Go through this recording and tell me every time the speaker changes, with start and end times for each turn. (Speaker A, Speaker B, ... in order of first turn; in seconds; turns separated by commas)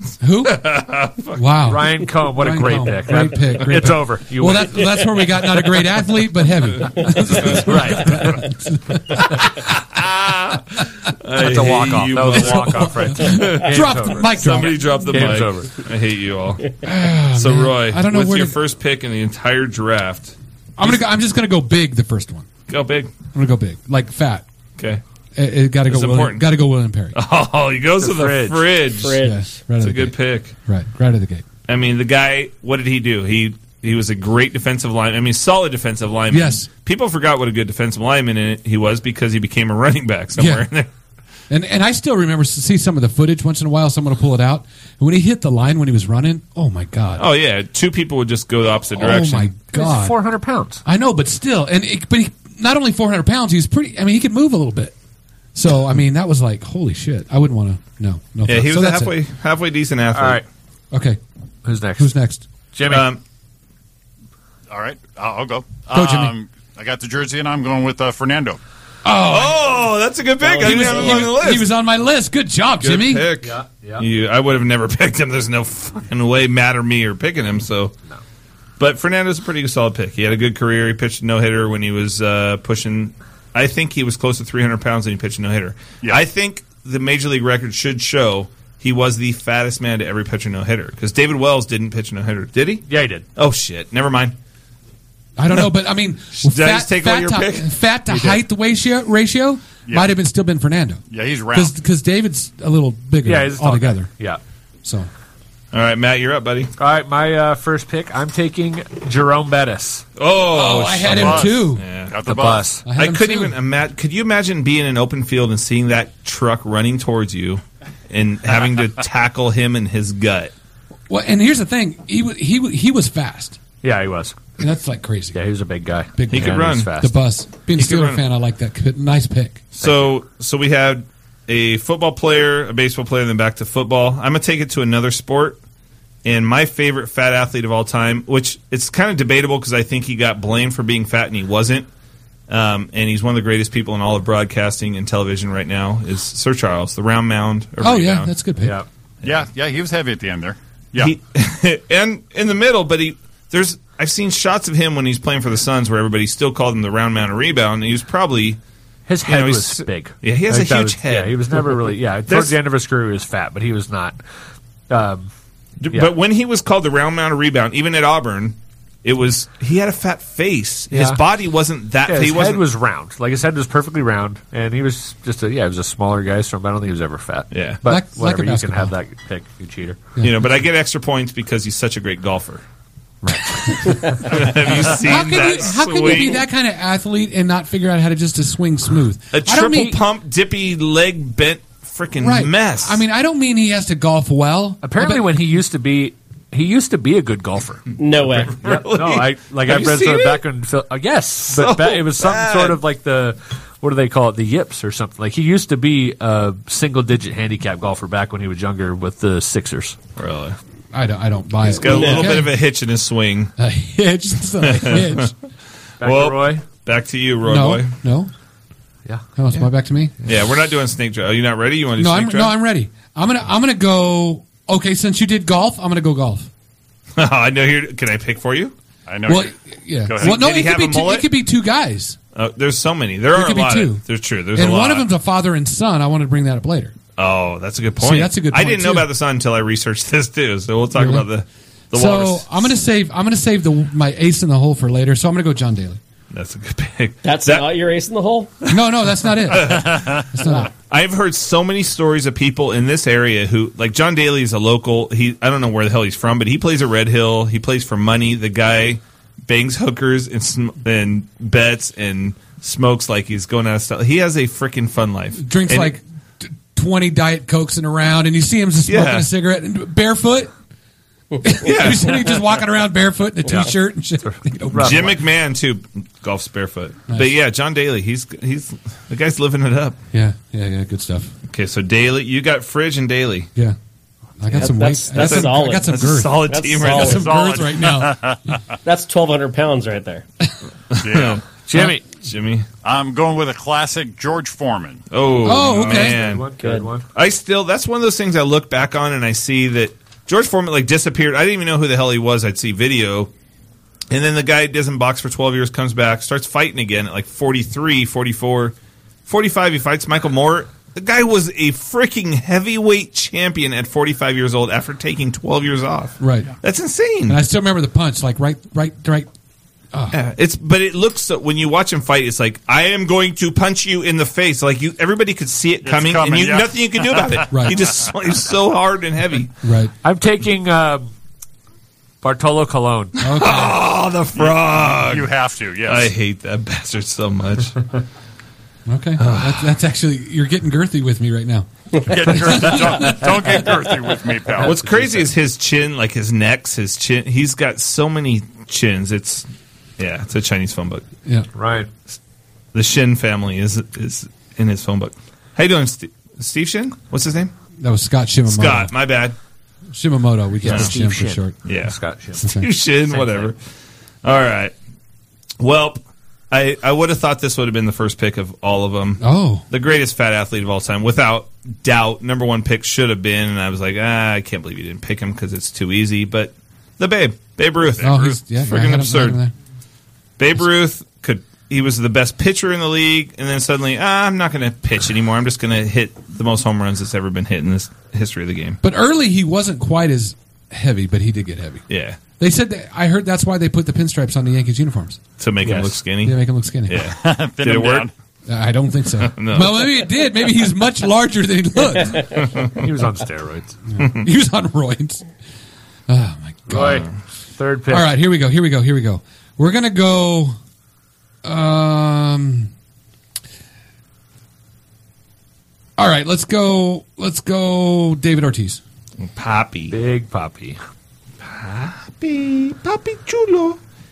Speaker A: 0.2-0.7, Speaker B: 0.4-1.8, Speaker A: 1.4-9.6, Speaker C: 1.6-5.0, Speaker C: 7.5-8.4, Speaker B: 9.7-16.7, Speaker C: 11.4-15.8, Speaker A: 12.3-15.0, Speaker A: 16.8-18.6, Speaker B: 17.3-21.0, Speaker A: 20.8-22.5, Speaker B: 22.7-23.1, Speaker A: 23.4-24.4, Speaker A: 25.4-27.2, Speaker B: 25.9-26.5, Speaker B: 27.1-29.2, Speaker C: 28.0-28.7, Speaker D: 29.0-29.5, Speaker A: 29.2-31.4, Speaker B: 29.8-30.5, Speaker B: 31.7-40.9, Speaker A: 36.3-36.7, Speaker A: 40.4-40.7, Speaker A: 41.5-47.2, Speaker B: 47.2-49.5, Speaker A: 49.0-50.2, Speaker C: 49.7-50.8, Speaker A: 50.9-54.9, Speaker A: 55.5-59.1, Speaker B: 58.5-60.4, Speaker C: 60.1-60.4, Speaker A: 60.9-61.2, Speaker C: 61.6-62.1, Speaker A: 62.0-62.5, Speaker C: 62.7-63.1, Speaker B: 62.9-63.2, Speaker E: 64.7-68.6, Speaker A: 65.9-66.3, Speaker A: 69.0-69.7, Speaker B: 69.3-71.7, Speaker A: 70.6-73.3, Speaker B: 72.8-77.9, Speaker C: 73.4-74.1, Speaker B: 78.8-94.3, Speaker C: 92.9-93.2, Speaker A: 95.4-101.0, Speaker B: 96.4-97.7, Speaker C: 98.1-98.4, Speaker E: 99.9-100.1, Speaker E: 101.1-101.7, Speaker A: 101.5-104.1, Speaker C: 103.2-104.4, Speaker A: 104.8-105.1, Speaker B: 105.7-106.7, Speaker C: 106.8-110.0, Speaker B: 110.2-112.2, Speaker A: 110.5-111.8, Speaker E: 111.0-112.7, Speaker C: 112.2-112.8, Speaker A: 112.8-113.5, Speaker B: 113.0-120.5, Speaker A: 121.1-123.6, Speaker C: 123.8-124.4, Speaker A: 124.6-125.4, Speaker C: 125.3-127.2, Speaker A: 126.2-129.6, Speaker B: 126.3-126.9, Speaker B: 127.8-128.2, Speaker B: 129.8-135.6, Speaker C: 129.8-130.1, Speaker B: 136.2-141.9, Speaker B: 142.5-148.3, Speaker A: 147.8-148.8, Speaker C: 148.6-148.9, Speaker E: 149.2-151.1, Speaker B: 151.0-158.6, Speaker C: 159.1-164.2, Speaker B: 159.3-161.5, Speaker B: 162.3-162.6, Speaker C: 164.9-165.3, Speaker B: 165.8-172.6, Speaker C: 170.9-171.2, Speaker C: 172.1-180.1, Speaker B: 177.5-177.8, Speaker A: 177.9-178.9, Speaker B: 180.2-182.6, Speaker C: 183.3-184.1, Speaker A: 183.7-183.9, Speaker B: 183.8-186.4, Speaker A: 184.9-190.0, Speaker B: 189.3-193.0, Speaker A: 192.2-195.3, Speaker C: 194.8-197.9, Speaker D: 198.0-198.6, Speaker B: 198.2-200.4, Speaker C: 198.6-210.0, Speaker B: 201.5-202.8, Speaker B: 210.2-210.6, Speaker A: 210.9-212.5, Speaker B: 211.6-213.5, Speaker D: 211.8-212.3, Speaker A: 213.6-215.3, Speaker B: 214.6-215.3, Speaker C: 216.0-216.7, Speaker B: 216.0-217.9, Speaker A: 217.5-218.3, Speaker A: 219.4-220.1, Speaker B: 220.2-222.6, Speaker A: 222.0-226.5, Speaker B: 227.2-228.7, Speaker E: 229.1-230.5, Speaker A: 229.3-232.2, Speaker B: 230.2-231.3, Speaker B: 232.3-235.1, Speaker A: 233.3-234.0, Speaker A: 234.6-236.9, Speaker B: 237.2-242.7, Speaker A: 238.0-239.1, Speaker A: 241.0-241.3, Speaker A: 241.9-246.0, Speaker B: 246.3-247.7, Speaker D: 247.2-248.5, Speaker A: 248.7-250.7, Speaker B: 249.5-250.1, Speaker E: 249.6-250.3, Speaker B: 250.8-266.0, Speaker A: 265.4-270.5, Speaker B: 268.9-269.3, Speaker A: 271.4-275.1, Speaker B: 271.6-272.3, Speaker C: 273.5-275.2, Speaker B: 274.8-280.0, Speaker A: 280.1-281.3, Speaker B: 281.5-283.5, Speaker A: 284.4-288.2, Speaker D: 284.5-287.4, Speaker B: 285.1-287.3, Speaker E: 287.0-288.8, Speaker D: 288.9-290.2, Speaker B: 290.9-292.7, Speaker E: 291.0-291.4, Speaker C: 291.7-292.0, Speaker E: 292.8-295.0, Speaker B: 295.1-296.5, Speaker A: 295.4-296.2, Speaker C: 295.7-297.1, Speaker D: 296.6-296.9, Speaker B: 297.1-303.3, Speaker B: 304.1-308.7, Speaker B: 309.3-317.4, Speaker A: 316.2-316.5, Speaker A: 317.3-319.3, Speaker B: 320.1-329.5, Speaker E: 325.8-328.1, Speaker A: 329.6-329.9, Speaker C: 330.0-331.1, Speaker C: 332.2-333.2, Speaker A: 333.2-333.8, Speaker B: 333.3-335.3, Speaker E: 334.4-336.1, Speaker B: 335.8-337.8, Speaker A: 338.9-341.7, Speaker B: 339.2-339.8, Speaker E: 342.0-344.8, Speaker A: 342.3-343.3, Speaker B: 344.6-349.5, Speaker B: 350.0-351.1, Speaker C: 351.5-351.9, Speaker B: 352.7-357.5, Speaker A: 357.8-358.9, Speaker B: 358.5-359.4, Speaker A: 359.9-361.6, Speaker C: 360.6-362.5, Speaker B: 361.6-363.6, Speaker A: 362.4-362.7, Speaker C: 363.1-363.5, Speaker B: 364.2-364.7, Speaker B: 365.6-366.0, Speaker B: 366.5-379.4, Speaker A: 369.2-369.7, Speaker A: 378.0-379.5, Speaker B: 380.4-388.8, Speaker A: 388.8-391.9, Speaker B: 391.9-392.2, Speaker A: 392.4-395.2, Speaker B: 395.4-398.1, Speaker C: 395.6-396.0, Speaker A: 396.2-397.0, Speaker E: 397.1-398.1, Speaker A: 398.5-402.3, Speaker B: 399.2-400.1, Speaker B: 402.3-402.9, Speaker C: 402.8-403.8, Speaker A: 403.9-405.2, Speaker B: 404.0-404.3, Speaker A: 406.1-407.1, Speaker C: 406.7-408.1, Speaker A: 407.9-410.6, Speaker A: 411.4-412.7, Speaker A: 416.0-418.8, Speaker B: 419.2-419.9, Speaker C: 419.9-420.8, Speaker B: 421.4-423.8